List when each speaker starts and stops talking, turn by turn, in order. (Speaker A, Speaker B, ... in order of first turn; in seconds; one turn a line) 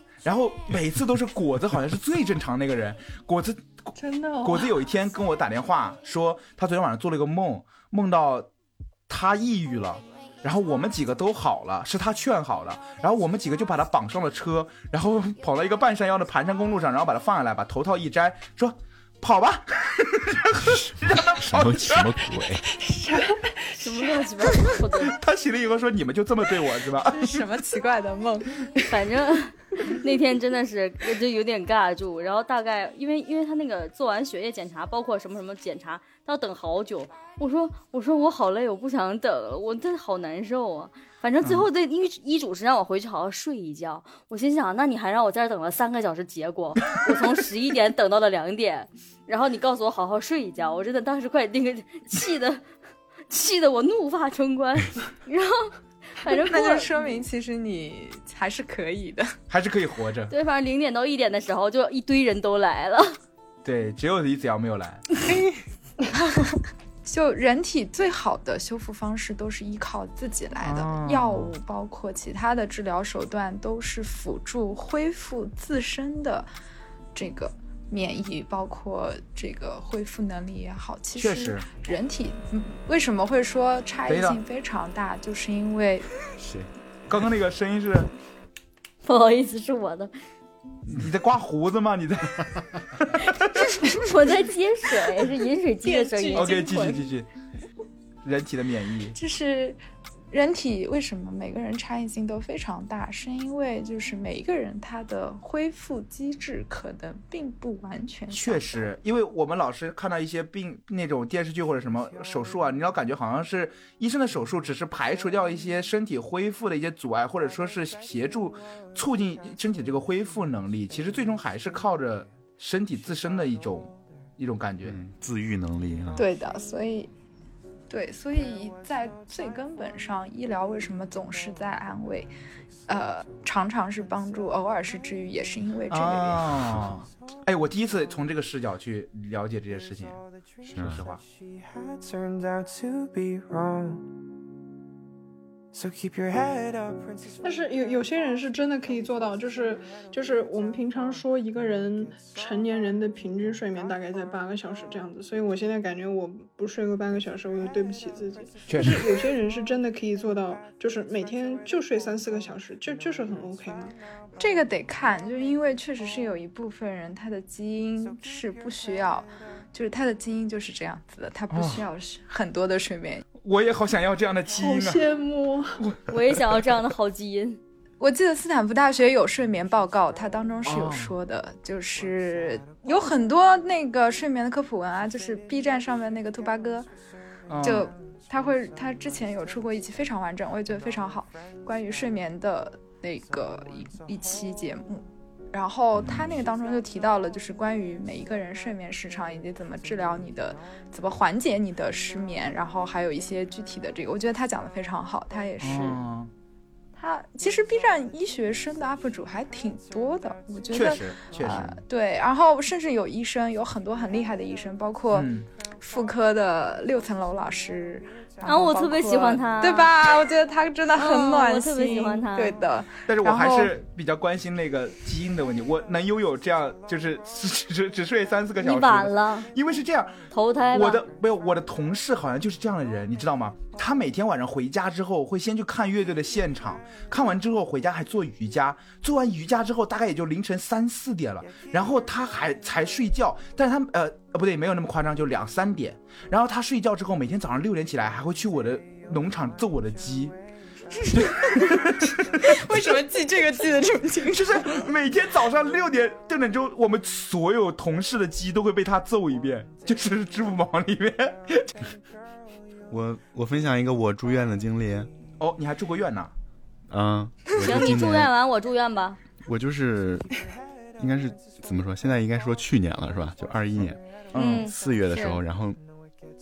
Speaker A: 0.2-8.5
Speaker B: 4.0-4.7
Speaker A: 9.1-22.2
Speaker C: 20.8-22.7
Speaker B: 22.8-23.8
Speaker D: 23.8-25.2
Speaker A: 25.0-27.4
Speaker E: 27.1-28.7
Speaker D: 28.9-52.6
Speaker D: 53.3-56.9
Speaker E: 56.2-59.4
Speaker A: 59.5-60.3
Speaker D: 60.3-63.2
Speaker A: 63.6-65.2
Speaker E: 67.0-76.5
Speaker A: 70.6-71.5
Speaker E: 77.2-86.1
Speaker A: 81.2-81.7
Speaker A: 84.1-84.4
Speaker C: 86.4-86.7
Speaker A: 87.1-88.1
Speaker D: 89.0-90.1
Speaker A: 90.9-93.6
Speaker D: 93.4-96.9
Speaker E: 95.8-97.0
Speaker A: 96.3-97.3
Speaker A: 98.2-99.2
Speaker E: 99.2-99.8
Speaker E: 100.3-108.9
Speaker A: 108.3-125.0
Speaker C: 124.8-126.3
Speaker E: 126.2-127.1
Speaker E: 127.9-132.3
Speaker E: 132.9-136.5
Speaker A: 135.9-140.2
Speaker C: 140.7-141.1
Speaker A: 140.8-141.2
Speaker F: 141.2-144.1
Speaker F: 145.7-147.5
Speaker B: 147.4-163.9
Speaker A: 158.7-159.1
Speaker E: 164.4-173.2
Speaker A: 171.5-171.8
Speaker A: 173.4-175.1
Speaker B: 174.5-175.8
Speaker A: 175.8-176.1
Speaker D: 176.1-177.6
Speaker E: 178.0-186.9
Speaker A: 180.7-181.1
Speaker A: 187.5-187.9
Speaker E: 187.6-206.0
Speaker A: 205.6-206.3
Speaker E: 207.0-223.7
Speaker A: 210.7-211.8
Speaker A: 215.1-215.5
Speaker D: 218.4-219.9
Speaker D: 220.9-222.6
Speaker A: 223.1-250.3
Speaker D: 228.6-229.5
Speaker D: 230.3-231.0
Speaker E: 251.0-251.6
Speaker A: 251.1-253.0
Speaker E: 252.4-254.7
Speaker A: 254.3-261.8
Speaker C: 262.9-265.1
Speaker A: 265.4-266.3
Speaker C: 266.9-268.3
Speaker D: 267.5-269.2
Speaker C: 269.4-270.3
Speaker C: 271.0-274.0
Speaker A: 274.3-274.7
Speaker D: 274.4-275.4
Speaker C: 274.5-275.8